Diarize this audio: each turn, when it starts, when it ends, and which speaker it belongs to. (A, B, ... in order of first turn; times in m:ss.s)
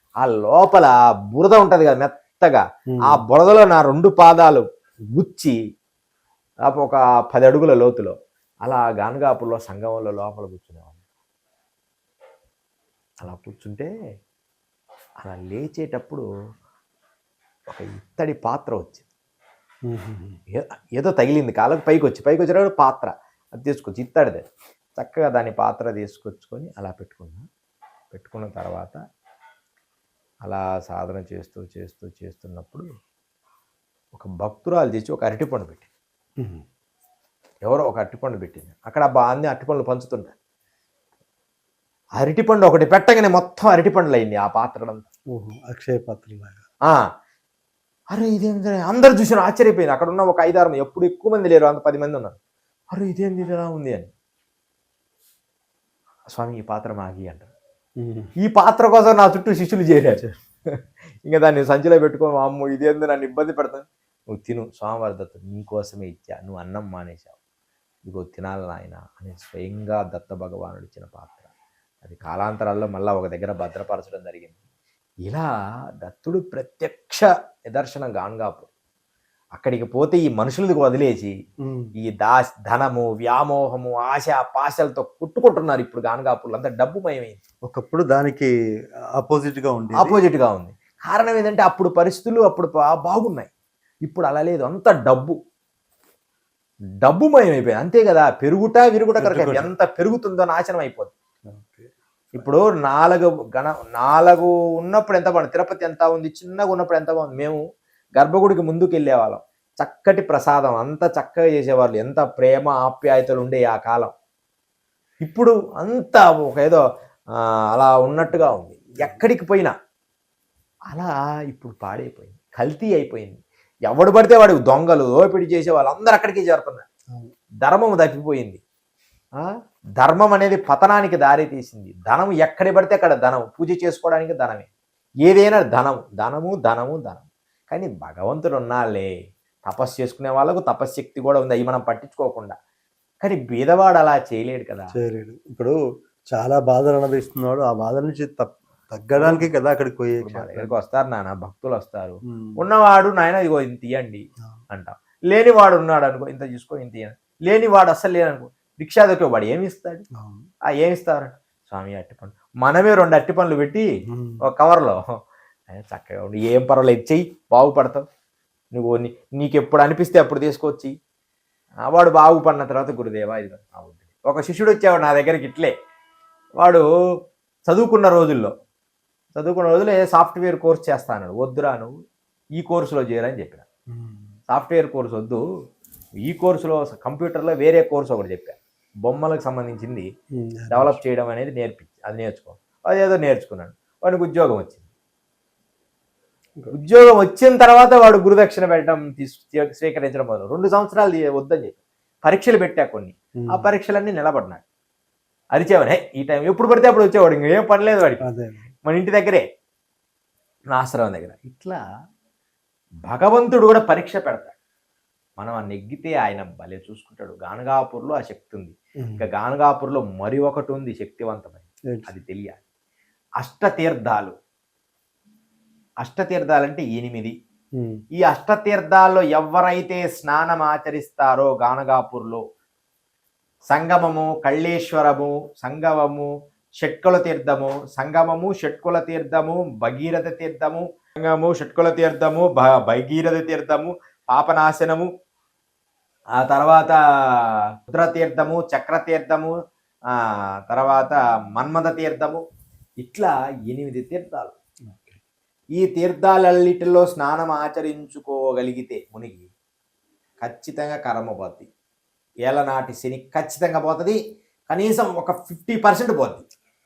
0:00.2-0:05.6 A
0:02.9-0:03.2 B
0:06.7-0:11.0 A
0:13.2-0:13.9 A
0:15.2-0:16.2 A
0:17.7-0:19.0 A
0:19.9-0:20.4 B
0:20.5-0:24.4 A
0:25.0-0:27.4 A
0:28.1-0:29.0 A
0:30.5-0:32.9 A
0:34.1-0:35.9 A
0:37.7-0:40.3 A
0:42.2-0:45.1 A
0:45.4-0:46.6 B
0:48.1-0:52.4 A
0:52.9-0:54.1 A
0:56.3-0:57.5 A
0:58.0-0:58.3 B
0:58.4-1:07.4 A
1:08.1-1:11.5 A
1:12.0-1:14.6 A
1:16.0-1:18.7 A
1:19.6-1:21.3 A
1:22.0-1:27.4 A
1:27.7-1:28.5 B
1:29.2-1:30.2 B
1:29.9-1:33.5 A
1:34.1-1:35.4 A
1:37.0-1:41.1 A
1:39.2-1:39.7 B
1:41.5-1:42.5 B
1:42.4-1:47.6 A
1:48.2-1:54.1 A
1:55.2-1:56.8 A
1:57.4-1:59.7 A
2:00.9-2:06.8 A
2:07.6-2:08.6 A
2:09.4-2:14.7 A
2:15.2-2:19.1 A
2:19.7-2:22.6 A
2:23.2-2:24.9 A
2:24.9-2:25.8 B
2:26.3-2:30.7 B
2:29.2-2:29.5 A
2:30.2-2:40.0 A
2:32.3-2:32.6 B
2:40.2-2:40.5 B
2:40.8-2:43.9 A
2:44.1-2:44.4 B
2:44.5-2:45.0 A
2:45.7-2:48.0 A
2:48.7-2:50.9 A
2:51.9-2:55.7 A
2:56.6-2:56.9 A
2:57.7-2:58.5 A
2:59.3-3:01.9 A
3:02.6-3:03.7 A
3:03.9-3:04.3 B
3:04.5-3:05.4 A
3:06.2-3:10.1 A
3:10.4-3:11.0 B
3:10.7-3:14.8 A
3:16.7-3:24.6 A
3:23.4-3:23.7 B
3:25.5-3:28.2 A
3:28.2-3:28.7 B
3:28.9-3:29.4 A
3:30.7-3:31.8 A
3:33.1-3:34.5 A
3:35.4-3:42.6 A
3:43.4-3:44.3 A
3:46.0-3:47.3 A
3:47.8-3:48.0 B
3:48.2-3:52.4 A
3:53.7-3:56.3 A
3:56.8-4:05.1 A
4:06.4-4:09.5 A
4:10.1-4:12.4 A
4:13.0-4:14.5 A
4:14.9-4:15.2 B
4:15.8-4:19.5 A
4:20.4-4:21.7 A
4:22.5-4:26.4 A